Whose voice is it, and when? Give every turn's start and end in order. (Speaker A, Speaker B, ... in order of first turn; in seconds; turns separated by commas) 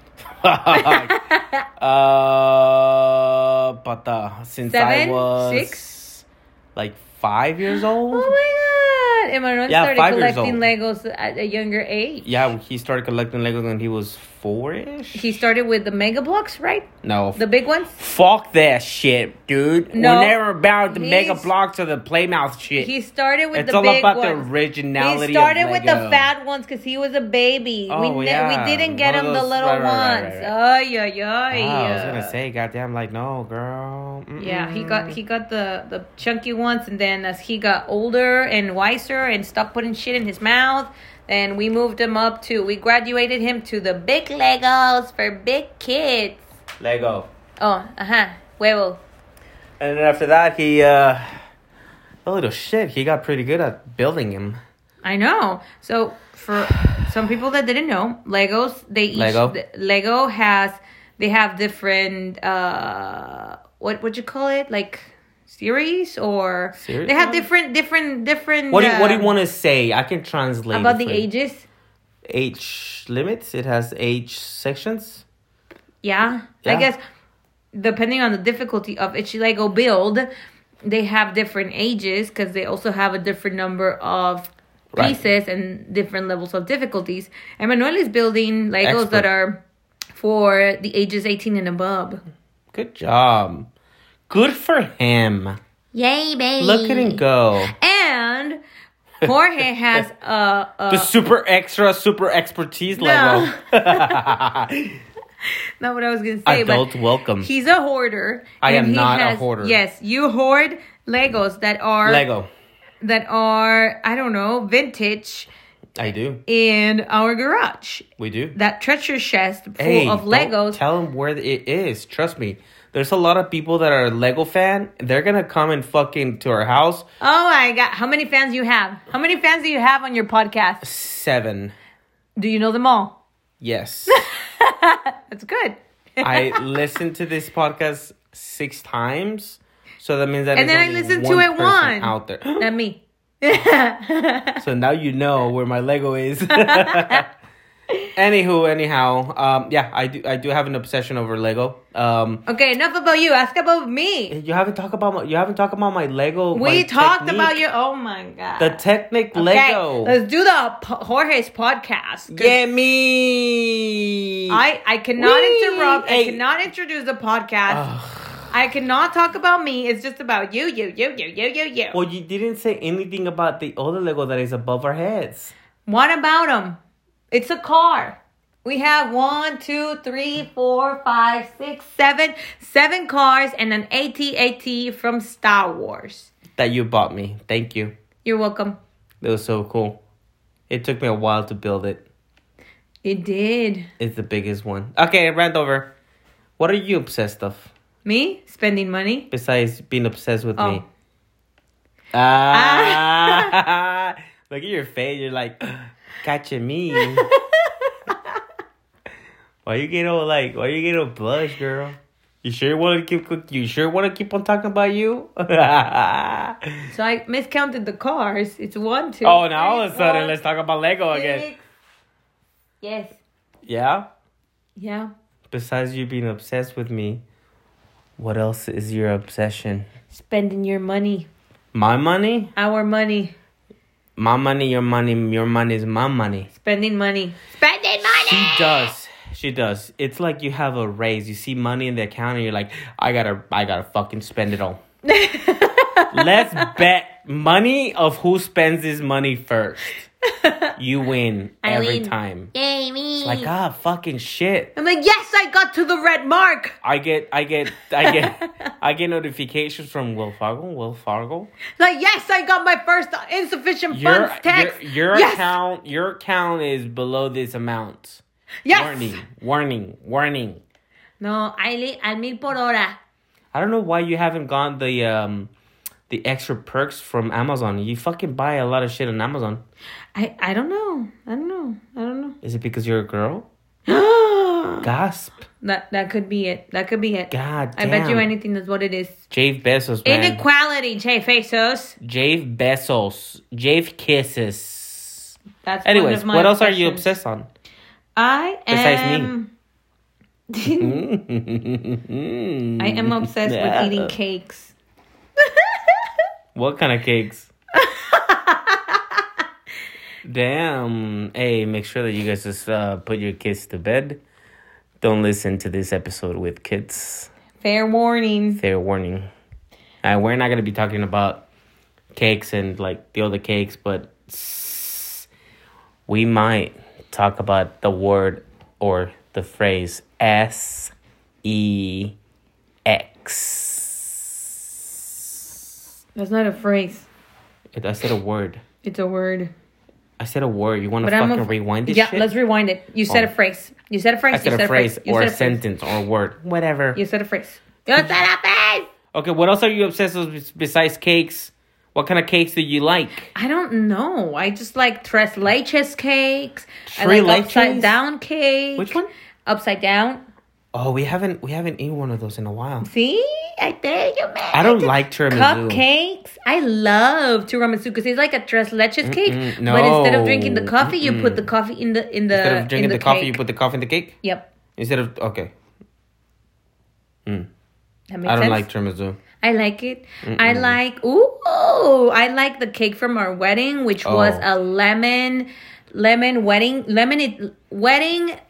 Speaker A: 0.2-1.1, Speaker B: 0.7-1.6, Speaker A: 1.8-8.4, Speaker B: 4.6-5.8, Speaker B: 7.7-12.3, Speaker A: 9.7-10.6, Speaker A: 12.2-15.3, Speaker B: 15.1-18.0, Speaker A: 17.0-17.4, Speaker A: 18.0-22.9, Speaker B: 19.9-21.5, Speaker B: 22.8-32.3, Speaker A: 23.5-26.3, Speaker A: 27.9-30.5, Speaker A: 31.5-35.2, Speaker B: 34.4-46.4, Speaker A: 46.8-47.3, Speaker B: 47.6-49.0, Speaker A: 49.8-51.3, Speaker A: 52.2-54.6, Speaker B: 55.0-69.3, Speaker A: 59.1-59.5, Speaker A: 66.8-67.5, Speaker A: 68.7-71.2, Speaker B: 70.7-71.7, Speaker A: 72.3-75.2, Speaker B: 76.0-77.0, Speaker A: 76.6-76.9, Speaker B: 77.7-80.3, Speaker B: 80.8-89.6, Speaker A: 84.9-85.2, Speaker A: 88.8-89.3, Speaker B: 90.2-92.2, Speaker A: 92.7-93.7, Speaker A: 94.3-95.6, Speaker B: 95.9-98.6, Speaker A: 96.6-97.7, Speaker B: 99.2-101.1, Speaker A: 100.9-105.0, Speaker B: 102.9-104.3, Speaker B: 105.5-106.9, Speaker A: 106.5-107.5, Speaker B: 107.4-112.2, Speaker A: 108.6-109.8, Speaker A: 112.0-112.5, Speaker B: 113.0-115.5, Speaker A: 116.0-116.4, Speaker B: 116.5-120.8, Speaker A: 118.2-118.5, Speaker A: 119.8-127.1, Speaker B: 127.2-130.8, Speaker A: 130.8-131.8, Speaker B: 132.4-133.2, Speaker A: 133.6-134.2, Speaker B: 134.1-136.6, Speaker A: 136.2-142.7, Speaker B: 140.5-144.6, Speaker A: 144.6-147.3, Speaker B: 146.5-147.2, Speaker A: 148.1-152.4, Speaker B: 152.5-154.3, Speaker A: 154.3-157.6, Speaker B: 156.5-162.6, Speaker A: 158.6-160.2, Speaker A: 162.3-164.6, Speaker B: 164.5-167.9, Speaker A: 165.2-166.4, Speaker A: 167.7-168.5, Speaker B: 168.5-172.0, Speaker A: 171.9-175.5, Speaker B: 175.8-176.8, Speaker B: 177.3-186.3, Speaker A: 186.6-187.9, Speaker B: 188.2-188.8, Speaker A: 189.2-190.0, Speaker A: 190.7-192.0, Speaker B: 193.0-193.9, Speaker A: 194.0-195.9, Speaker A: 196.6-197.7, Speaker B: 198.0-199.3, Speaker A: 199.3-200.8, Speaker B: 200.6-200.8, Speaker A: 202.1-207.3, Speaker B: 202.5-203.5, Speaker B: 206.9-208.1, Speaker A: 209.6-216.6, Speaker B: 216.9-220.4, Speaker A: 219.2-221.5, Speaker B: 221.1-221.6, Speaker B: 222.8-223.2, Speaker A: 223.7-224.1, Speaker B: 224.8-225.1, Speaker A: 225.5-227.2, Speaker A: 228.2-229.9, Speaker B: 230.1-231.3, Speaker A: 231.7-232.5, Speaker B: 232.6-233.3, Speaker A: 234.2-236.5, Speaker B: 236.5-238.9, Speaker A: 238.0-244.8, Speaker B: 245.0-246.7, Speaker A: 246.1-250.0, Speaker B: 250.3-250.7, Speaker A: 250.8-252.5, Speaker B: 251.6-253.5, Speaker A: 253.2-254.7, Speaker B: 254.8-256.8, Speaker A: 256.8-261.5, Speaker B: 258.0-258.5, Speaker B: 261.8-265.6, Speaker A: 263.9-270.6, Speaker B: 268.6-269.2, Speaker B: 271.2-273.0, Speaker A: 273.5-275.5, Speaker A: 276.1-279.6, Speaker B: 280.1-282.4, Speaker A: 282.4-283.5, Speaker B: 283.9-284.9, Speaker A: 284.8-285.4, Speaker B: 285.6-289.1, Speaker A: 287.3-288.3, Speaker A: 289.3-290.4, Speaker B: 290.0-291.9, Speaker A: 292.0-297.5, Speaker B: 295.6-297.1, Speaker B: 298.1-299.5, Speaker A: 298.7-299.3, Speaker B: 300.5-301.0, Speaker A: 300.7-304.1, Speaker B: 302.8-304.7, Speaker B: 305.4-306.1, Speaker A: 306.5-307.5, Speaker B: 307.8-309.2, Speaker A: 310.2-314.2, Speaker A: 315.0-317.3, Speaker B: 317.6-318.6, Speaker A: 318.5-319.3, Speaker A: 320.0-321.4, Speaker A: 322.1-325.3, Speaker A: 326.1-330.9, Speaker A: 331.4-332.1, Speaker A: 332.8-334.3, Speaker B: 336.1-337.1, Speaker A: 337.7-338.6, Speaker B: 338.8-339.5, Speaker A: 340.2-342.3, Speaker B: 341.0-345.6, Speaker A: 344.3-347.0, Speaker B: 346.9-348.9, Speaker A: 349.1-353.3, Speaker B: 353.3-360.2, Speaker A: 356.9-357.9, Speaker A: 358.8-359.1, Speaker A: 360.7-362.9, Speaker B: 362.8-373.4, Speaker A: 364.5-365.8, Speaker A: 369.0-371.5, Speaker A: 372.3-374.2, Speaker B: 374.2-374.5, Speaker A: 374.8-375.5, Speaker B: 378.1-378.6, Speaker A: 378.2-379.2, Speaker B: 379.4-388.4, Speaker A: 380.2-380.8, Speaker A: 384.0-384.4